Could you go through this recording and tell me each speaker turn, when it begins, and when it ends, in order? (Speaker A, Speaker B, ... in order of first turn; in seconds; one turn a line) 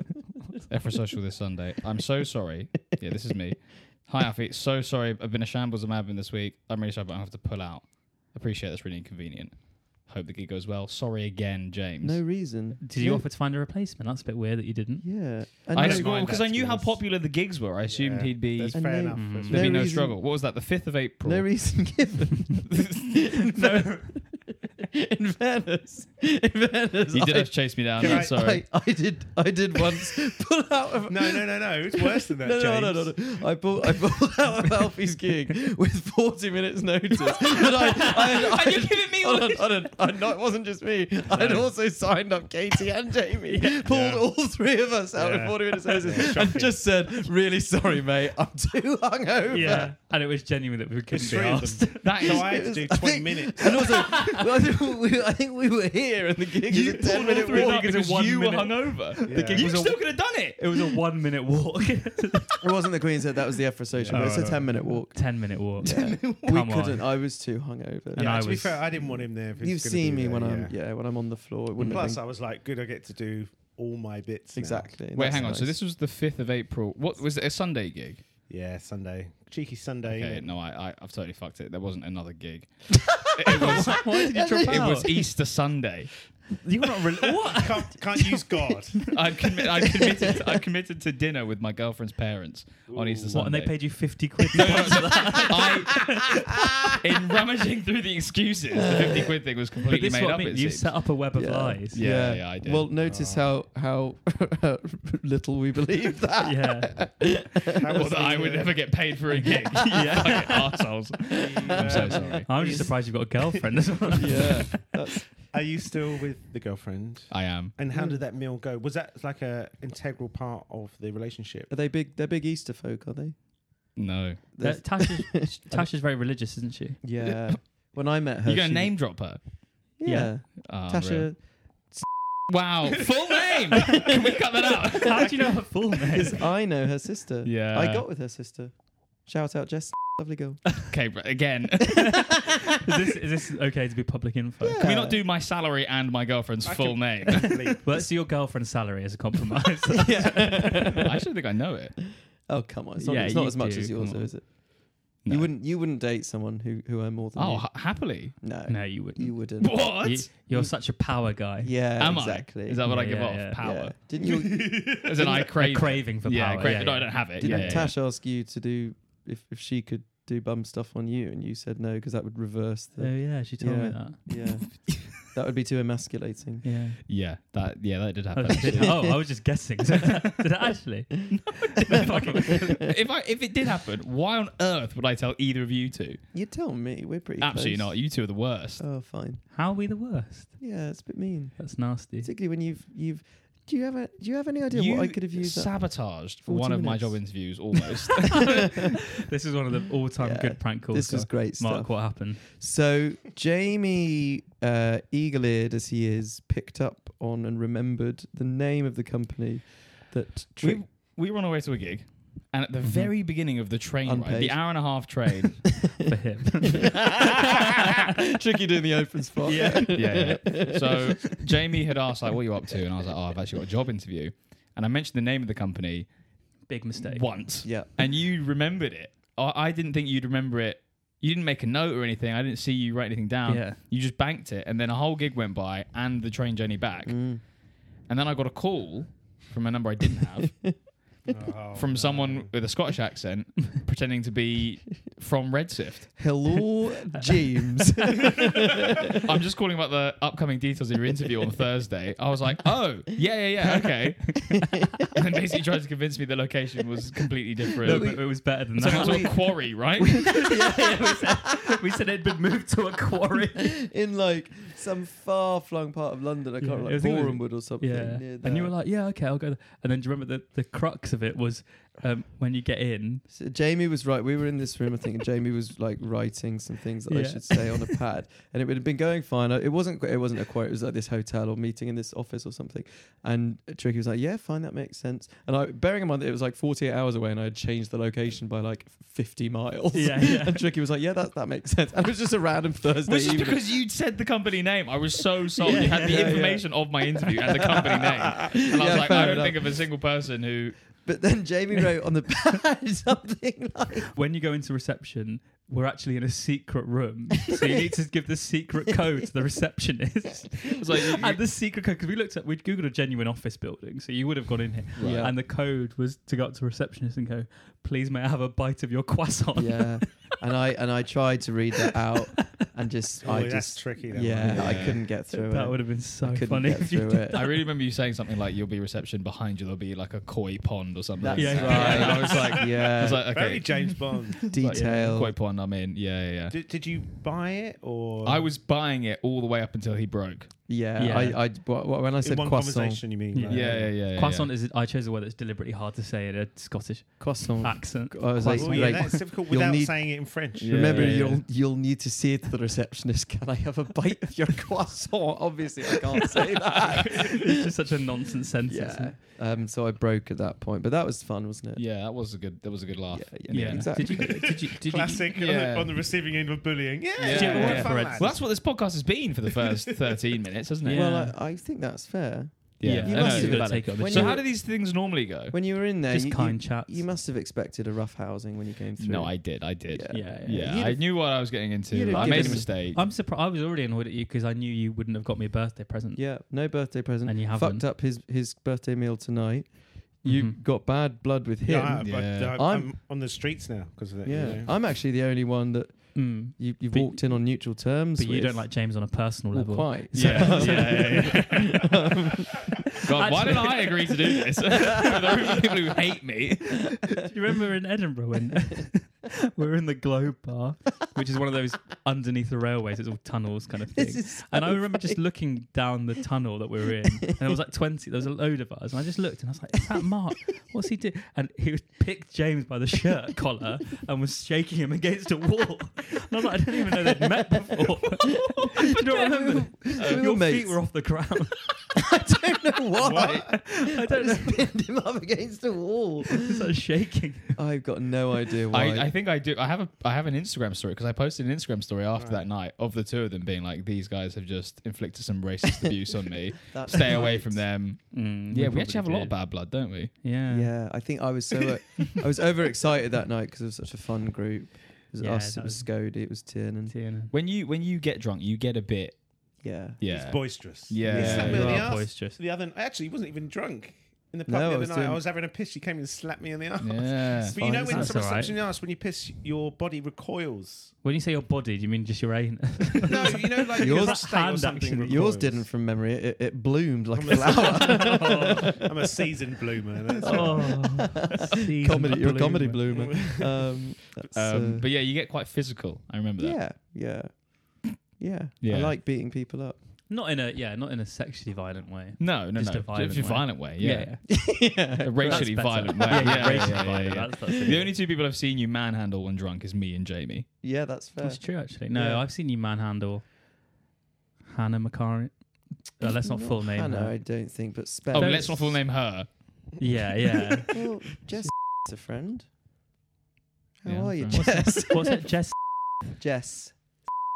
Speaker A: 0.7-12.2
Speaker B: 12.0-13.2
Speaker C: 12.8-15.3
Speaker B: 15.0-17.0
Speaker A: 15.7-21.5
Speaker D: 15.8-16.4
Speaker D: 17.9-19.8
Speaker B: 18.7-20.2
Speaker C: 19.1-19.7
Speaker B: 21.2-49.9
Speaker C: 23.5-24.3
Speaker A: 27.1-28.6
Speaker D: 28.0-28.4
Speaker D: 31.1-33.3
Speaker C: 37.8-38.9
Speaker A: 38.1-39.6
Speaker D: 41.4-41.6
Speaker C: 43.5-43.8
Speaker D: 43.8-44.2
Speaker D: 45.1-46.8
Speaker C: 45.9-46.2
Speaker C: 49.5-52.3
Speaker D: 49.5-49.9
Speaker D: 51.1-53.8
Speaker A: 52.0-52.6
Speaker B: 52.3-57.9
Speaker C: 53.6-54.5
Speaker A: 56.7-60.7
Speaker C: 56.7-62.5
Speaker D: 59.3-59.6
Speaker B: 62.6-68.4
Speaker D: 64.0-64.7
Speaker C: 64.1-67.1
Speaker A: 65.8-66.5
Speaker C: 68.1-69.1
Speaker D: 68.1-70.7
Speaker B: 69.5-72.2
Speaker D: 71.8-75.0
Speaker B: 74.5-75.8
Speaker A: 75.1-78.2
Speaker D: 78.5-80.5
Speaker A: 80.0-86.1
Speaker B: 83.3-85.3
Speaker C: 83.5-85.3
Speaker C: 86.6-88.3
Speaker D: 87.2-89.1
Speaker A: 89.1-96.4
Speaker D: 92.9-93.3
Speaker C: 93.3-96.3
Speaker B: 96.6-96.9
Speaker A: 97.0-100.9
Speaker B: 98.8-99.3
Speaker C: 99.8-102.0
Speaker B: 101.3-108.7
Speaker A: 101.9-102.9
Speaker D: 103.0-103.4
Speaker C: 106.4-107.2
Speaker D: 107.8-108.7
Speaker A: 107.9-112.5
Speaker C: 109.5-110.8
Speaker D: 111.3-113.6
Speaker B: 111.4-112.4
Speaker C: 112.4-114.9
Speaker B: 114.1-115.3
Speaker D: 115.5-121.7
Speaker A: 117.3-117.7
Speaker B: 117.9-118.2
Speaker B: 121.7-123.4
Speaker A: 124.0-124.4
Speaker B: 124.5-125.9
Speaker C: 124.6-127.0
Speaker B: 127.0-129.0
Speaker A: 128.4-129.4
Speaker B: 130.0-132.1
Speaker C: 130.0-130.3
Speaker A: 130.6-131.3
Speaker A: 132.5-135.3
Speaker C: 135.0-136.4
Speaker B: 136.1-140.8
Speaker A: 137.4-138.0
Speaker A: 140.9-142.1
Speaker C: 142.7-144.8
Speaker B: 144.6-145.2
Speaker A: 144.8-147.6
Speaker D: 146.6-147.8
Speaker C: 147.8-150.8
Speaker B: 149.9-151.2
Speaker A: 150.7-151.9
Speaker B: 152.5-161.0
Speaker C: 153.0-154.4
Speaker A: 155.2-155.5
Speaker A: 157.3-158.3
Speaker C: 158.7-161.7
Speaker A: 159.6-160.3
Speaker B: 161.6-162.8
Speaker A: 162.0-163.9
Speaker C: 162.8-163.7
Speaker B: 163.6-165.2
Speaker D: 164.2-165.5
Speaker A: 165.0-168.0
Speaker C: 165.6-167.8
Speaker B: 167.4-176.7
Speaker C: 173.0-175.0
Speaker C: 176.6-177.0
Speaker A: 177.1-179.0
Speaker C: 178.3-182.9
Speaker B: 178.6-179.2
Speaker A: 181.3-186.2
Speaker B: 186.3-188.0
Speaker A: 187.4-188.8
Speaker B: 188.8-189.4
Speaker C: 189.5-190.6
Speaker B: 190.6-197.4
Speaker C: 191.6-192.3
Speaker A: 194.7-198.5
Speaker C: 198.4-202.6
Speaker B: 200.2-210.8
Speaker A: 210.6-215.7
Speaker C: 212.8-213.1
Speaker B: 214.0-215.1
Speaker C: 216.1-217.4
Speaker B: 216.8-221.1
Speaker C: 219.4-220.4
Speaker A: 219.9-226.1
Speaker C: 226.7-227.6
Speaker A: 227.0-240.8
Speaker B: 227.6-227.9
Speaker C: 233.4-233.8
Speaker B: 237.1-237.4
Speaker D: 241.2-242.5
Speaker A: 241.7-246.3
Speaker B: 246.2-248.9
Speaker A: 249.2-260.4
Speaker B: 257.8-259.4
Speaker C: 257.8-259.6
Speaker B: 260.0-261.6
Speaker C: 260.2-263.9
Speaker B: 263.3-268.7
Speaker C: 266.6-273.2
Speaker B: 273.3-293.6
Speaker C: 277.1-278.0
Speaker C: 289.9-290.6
Speaker A: 293.0-300.8
Speaker C: 295.6-296.5
Speaker B: 295.7-299.8
Speaker B: 301.0-304.1
Speaker C: 304.1-320.2
Speaker A: 310.7-311.4
Speaker A: 315.0-315.3
Speaker B: 315.0-315.4
Speaker B: 319.5-327.4
Speaker C: 321.9-322.7
Speaker D: 323.2-324.9
Speaker A: 324.5-325.0
Speaker C: 324.9-327.6
Speaker A: 327.3-336.5
Speaker B: 331.2-333.4
Speaker C: 331.3-332.6
Speaker D: 333.2-334.5
Speaker B: 334.5-335.4
Speaker C: 334.5-335.2
Speaker D: 336.5-338.5
Speaker A: 338.2-340.5
Speaker B: 340.7-343.0
Speaker C: 341.0-341.4
Speaker D: 342.2-343.9
Speaker C: 343.3-349.2
Speaker A: 343.4-344.5
Speaker B: 347.2-357.5
Speaker D: 348.5-351.1
Speaker A: 350.6-351.4
Speaker C: 356.8-359.1
Speaker B: 358.6-361.8
Speaker A: 361.8-363.9
Speaker B: 363.1-364.5
Speaker C: 363.5-365.3
Speaker D: 364.2-368.4
Speaker A: 365.3-366.0
Speaker A: 367.2-371.1
Speaker C: 367.2-368.3
Speaker C: 370.8-371.3
Speaker B: 370.9-374.9
Speaker A: 372.8-375.5
Speaker C: 372.8-374.4
Speaker B: 375.5-381.1
Speaker C: 376.1-377.0
Speaker A: 379.0-383.0
Speaker C: 380.1-380.8
Speaker B: 381.9-382.7
Speaker C: 382.1-386.4
Speaker B: 386.1-392.9
Speaker C: 387.2-387.9
Speaker C: 390.2-390.6
Speaker D: 391.6-394.7
Speaker A: 392.0-392.6
Speaker B: 394.2-402.7
Speaker C: 396.1-401.8
Speaker A: 400.1-401.7
Speaker A: 403.0-407.1
Speaker C: 403.1-404.1
Speaker C: 407.1-431.8
Speaker B: 413.9-415.2
Speaker B: 429.0-430.8
Speaker B: 431.9-436.5
Speaker D: 433.0-433.6
Speaker C: 433.2-434.7
Speaker C: 436.2-437.6
Speaker B: 437.5-439.1
Speaker A: 438.7-450.1
Speaker D: 442.2-442.5
Speaker B: 446.6-447.6
Speaker C: 448.0-449.5
Speaker C: 450.2-451.3
Speaker B: 450.5-456.9
Speaker C: 455.2-456.3
Speaker C: 456.9-457.3
Speaker A: 457.3-461.9
Speaker B: 459.6-460.0
Speaker D: 460.1-470.9
Speaker B: 461.1-461.6
Speaker C: 461.1-462.4
Speaker B: 464.5-465.2
Speaker A: 466.8-467.6
Speaker B: 467.5-468.2
Speaker C: 467.9-468.6
Speaker C: 471.0-475.4
Speaker D: 473.1-475.6
Speaker B: 473.8-474.2
Speaker B: 475.0-478.8
Speaker D: 477.1-480.9
Speaker C: 477.6-478.7
Speaker C: 480.2-483.1
Speaker B: 480.2-484.9
Speaker D: 482.9-483.5
Speaker A: 484.3-486.6
Speaker B: 486.4-489.8
Speaker A: 488.6-488.9
Speaker C: 490.1-497.9
Speaker A: 492.2-500.5
Speaker B: 494.3-496.9
Speaker B: 500.6-502.2
Speaker C: 501.2-503.3
Speaker C: 504.4-507.2
Speaker B: 506.0-508.6
Speaker C: 508.1-508.8
Speaker A: 508.1-509.8
Speaker C: 509.8-510.8
Speaker B: 510.7-512.5
Speaker B: 513.8-515.3
Speaker A: 513.8-514.6
Speaker C: 514.3-515.5
Speaker B: 516.1-517.0